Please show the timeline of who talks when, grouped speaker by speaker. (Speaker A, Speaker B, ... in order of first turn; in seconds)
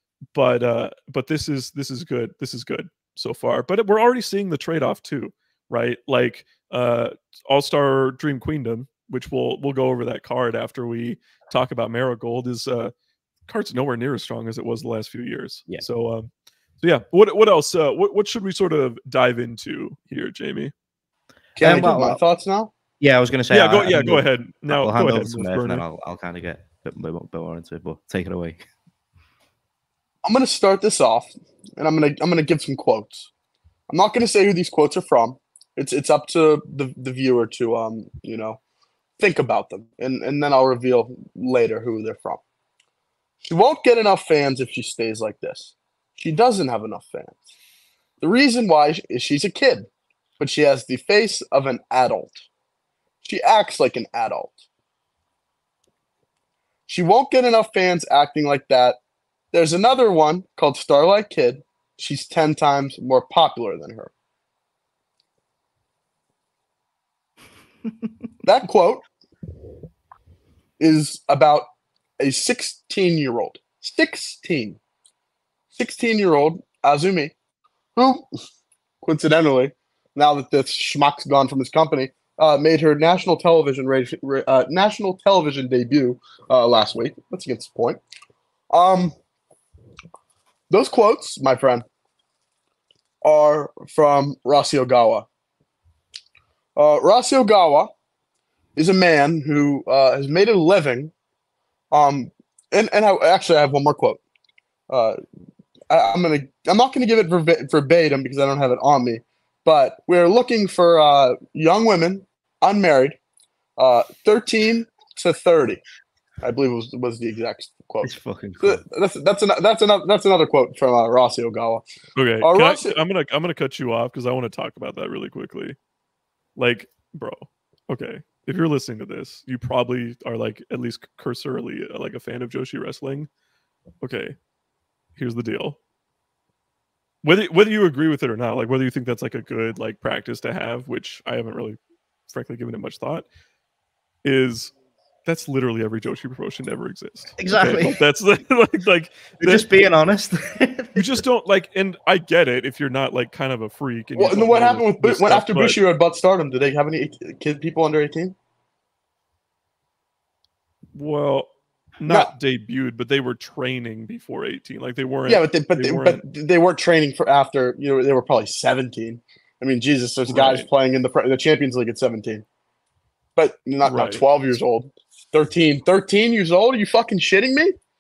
Speaker A: 0.3-12.9, 13.5-16.3, 16.8-20.7, 23.5-25.8, 122.2-125.8, 126.5-133.3, 134.0-134.3, 135.2-135.8, 137.2-143.3, 144.2-144.7, 145.2-149.7, 150.9-155.8, 160.9-166.2, 170.3-170.7, 173.8-174.2
Speaker B: 21.6-22.7, 30.2-33.3, 33.9-38.6, 39.2-42.4, 43.4-47.4, 48.2-49.9, 50.4-52.5, 53.2-54.6, 56.9-59.0, 59.5-64.1, 68.4-69.0, 70.8-71.7, 72.2-74.8, 75.8-77.3, 78.0-78.2, 79.0-88.0, 88.7-89.1, 90.7-91.8, 93.2-95.2, 96.8-97.9, 98.8-101.1, 101.9-104.2, 104.9-105.2, 105.9-113.2, 113.8-115.8, 116.4-121.8, 122.4-123.0, 154.2-158.3, 165.3-172.4, 173.3-177.8
Speaker C: 21.6-22.2, 23.0-28.6, 118.0-118.8, 147.4-148.0, 149.4-151.2